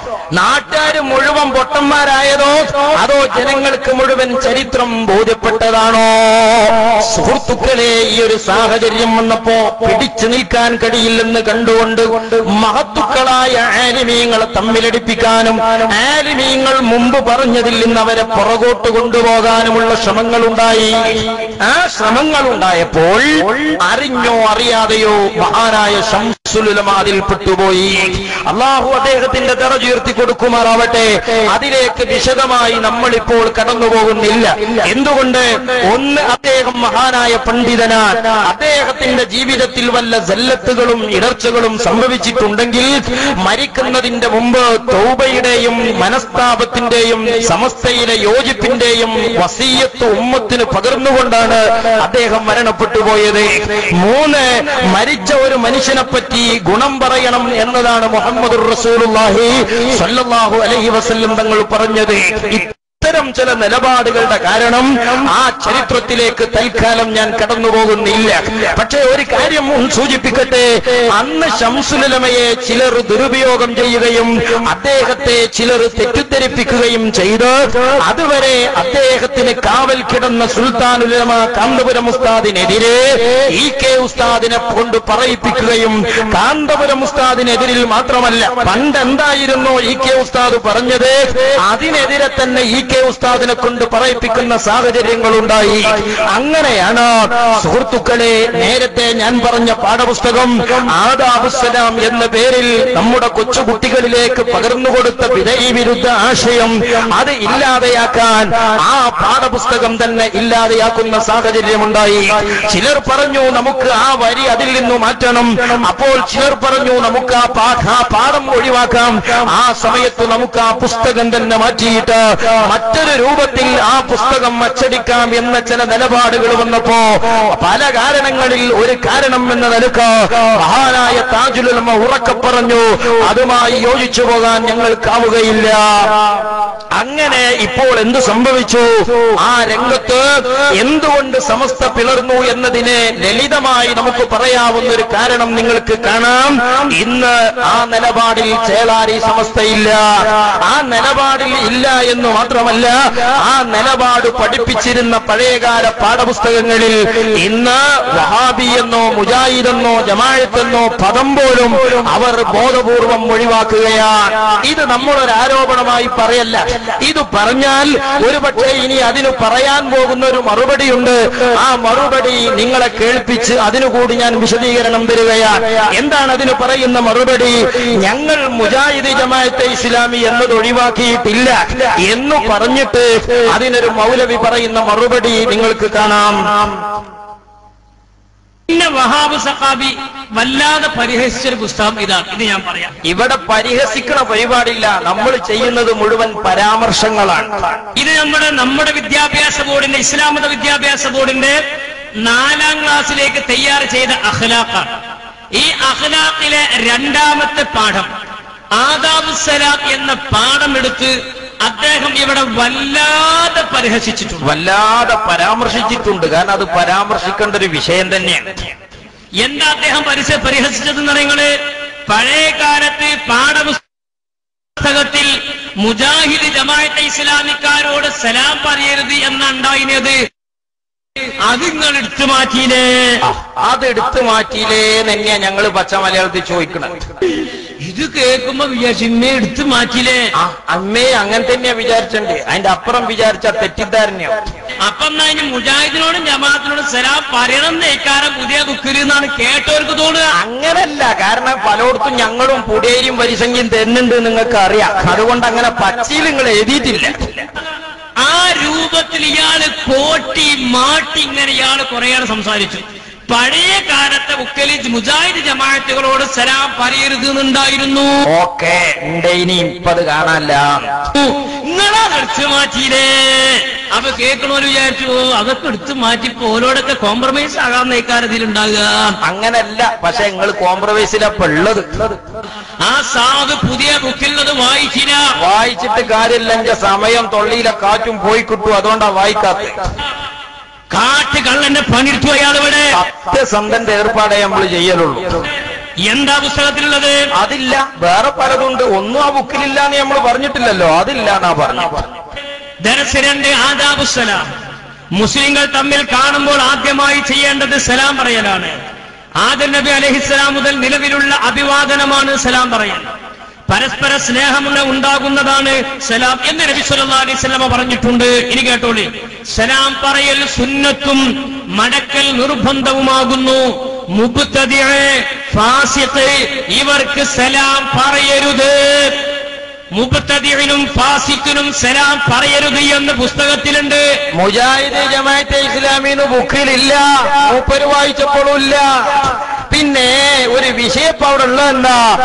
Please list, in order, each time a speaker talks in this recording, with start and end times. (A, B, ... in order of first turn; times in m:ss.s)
0:00.3-2:15.9 A
2:17.0-3:06.4 A
3:08.7-3:12.9 B
3:13.0-3:17.7 A
3:17.9-3:21.6 B
3:22.2-3:24.9 B
3:25.5-3:28.1 B
3:28.8-3:34.4 B
3:34.4-3:38.5 A
3:39.4-3:41.5 B
3:42.1-3:43.8 B
3:44.8-3:50.2 B
3:51.4-3:53.2 B
3:53.2-3:56.9 A
3:57.8-4:00.3 B
4:00.4-4:04.3 A
4:04.8-4:10.3 B
4:10.4-4:17.4 A
4:18.2-4:28.2 B
4:28.3-4:30.8 A
4:31.1-4:39.2 B
4:39.2-4:42.2 A
4:42.8-4:45.2 B
4:45.4-4:49.7 A
4:50.9-4:52.9 B
4:52.9-4:55.4 A
4:56.0-4:57.2 B
4:57.4-5:02.1 A
5:02.8-5:04.4 B
5:05.1-5:08.7 B
5:09.4-5:13.1 B
5:13.7-5:21.2 B
5:21.8-5:29.2 B
5:29.9-5:34.1 B
5:34.4-5:42.0 A